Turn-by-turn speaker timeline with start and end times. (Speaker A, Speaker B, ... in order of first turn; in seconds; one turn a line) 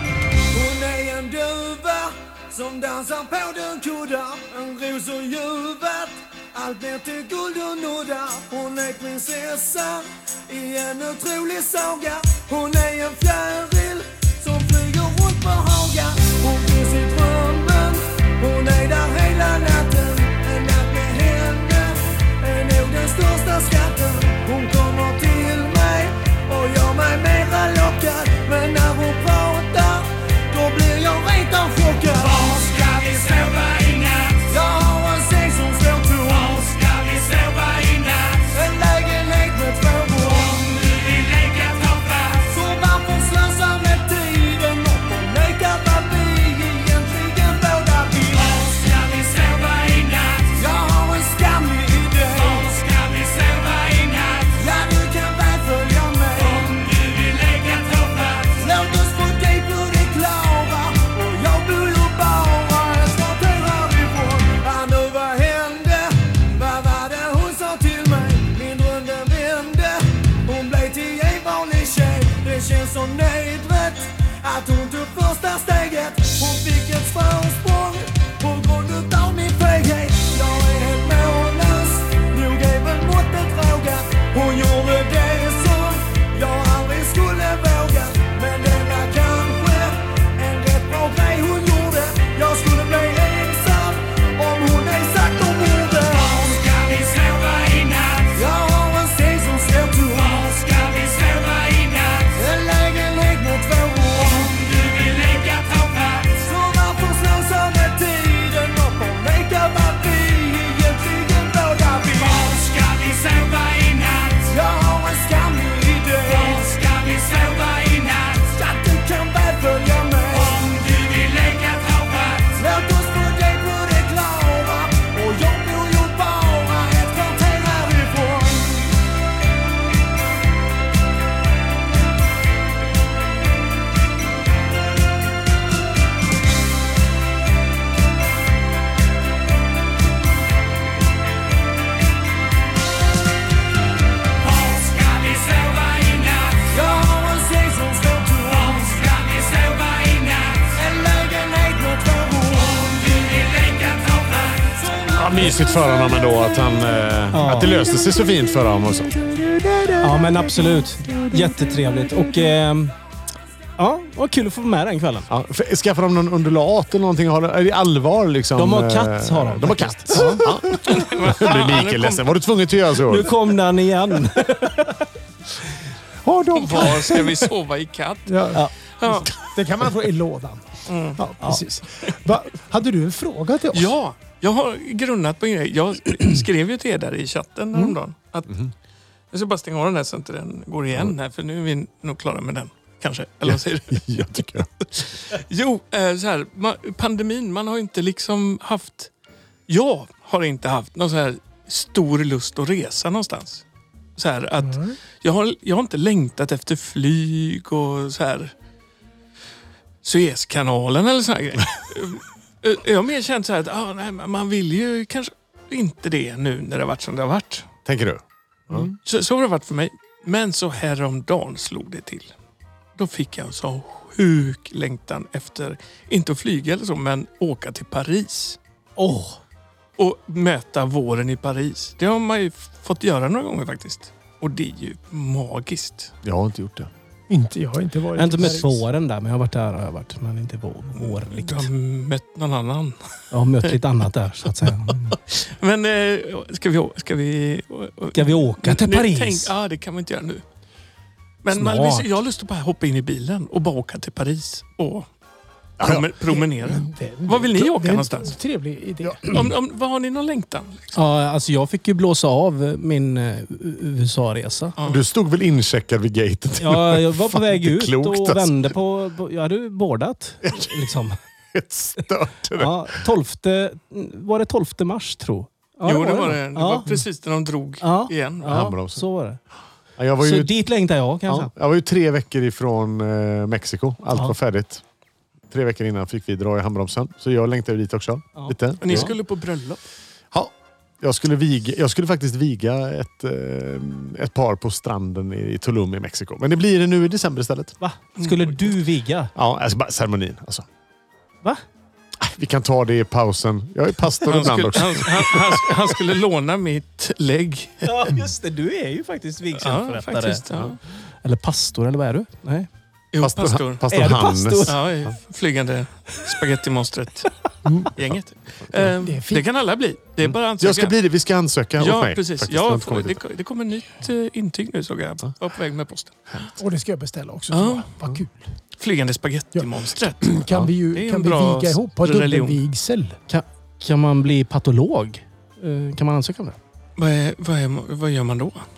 Speaker A: 0.6-128.9
Speaker A: 144.9-154.8
Speaker B: 155.0-160.2
Speaker C: 157.3-157.8
Speaker C: 160.0-162.9
Speaker D: 160.4-162.4
Speaker C: 163.8-165.3
Speaker B: 165.3-173.3
Speaker C: 168.6-170.4
Speaker D: 170.2-170.4
Speaker E: 170.8-172.3
Speaker C: 173.1-175.0
Speaker D: 176.2-177.5
Speaker E: 176.5-179.3
Speaker D: 178.3-183.9
Speaker E: 180.9-181.2
Speaker E: 183.7-188.6
Speaker E: 189.3-194.1
Speaker B: 193.5-194.9
Speaker E: 195.0-199.1
Speaker E: 199.7-203.6
Speaker E: 204.2-208.5
Speaker D: 204.6-205.0
Speaker E: 210.0-217.7
Speaker B: 217.9-218.9
Speaker E: 219.0-222.3
Speaker E: 223.0-228.6
Speaker C: 229.0-229.4
Speaker E: 230.0-236.1
Speaker B: 236.2-236.9
Speaker D: 237.3-238.8
Speaker C: 238.2-241.7
Speaker E: 241.0-243.0
Speaker C: 243.3-245.1
Speaker E: 244.9-250.4
Speaker C: 248.1-249.5
Speaker E: 251.4-255.1
Speaker C: 251.5-252.1
Speaker B: 255.8-256.1
Speaker E: 255.8-258.4
Speaker D: 256.3-259.3
Speaker E: 259.3-261.0
Speaker C: 260.9-264.8
Speaker B: 264.8-268.8
Speaker C: 266.6-271.2
Speaker B: 270.4-270.9
Speaker B: 271.5-272.9
Speaker C: 272.6-277.0
Speaker E: 275.9-278.6
Speaker C: 277.8-279.4
Speaker B: 278.5-279.1
Speaker B: 280.0-280.5
Speaker C: 280.2-281.5
Speaker B: 281.3-284.8
Speaker B: 285.5-289.1
Speaker C: 288.4-289.1
Speaker E: 288.8-289.8
Speaker B: 290.3-297.8
Speaker C: 297.8-299.3
Speaker E: 298.2-298.7
Speaker B: 299.4-300.7
Speaker B: 302.2-306.0
Speaker E: 304.3-308.1
Speaker C: 307.8-310.4
Speaker E: 309.6-310.8
Speaker C: 311.2-312.7
Speaker E: 313.1-313.9
Speaker B: 313.2-315.1
Speaker C: 313.9-314.8
Speaker E: 314.6-317.3
Speaker D: 317.6-317.9
Speaker E: 318.0-320.9
Speaker D: 319.0-319.5
Speaker B: 320.2-323.2
Speaker E: 321.8-326.5
Speaker D: 326.6-328.4
Speaker E: 327.5-328.1
Speaker E: 328.8-332.6
Speaker D: 330.2-333.2
Speaker C: 333.3-336.6
Speaker E: 337.0-338.7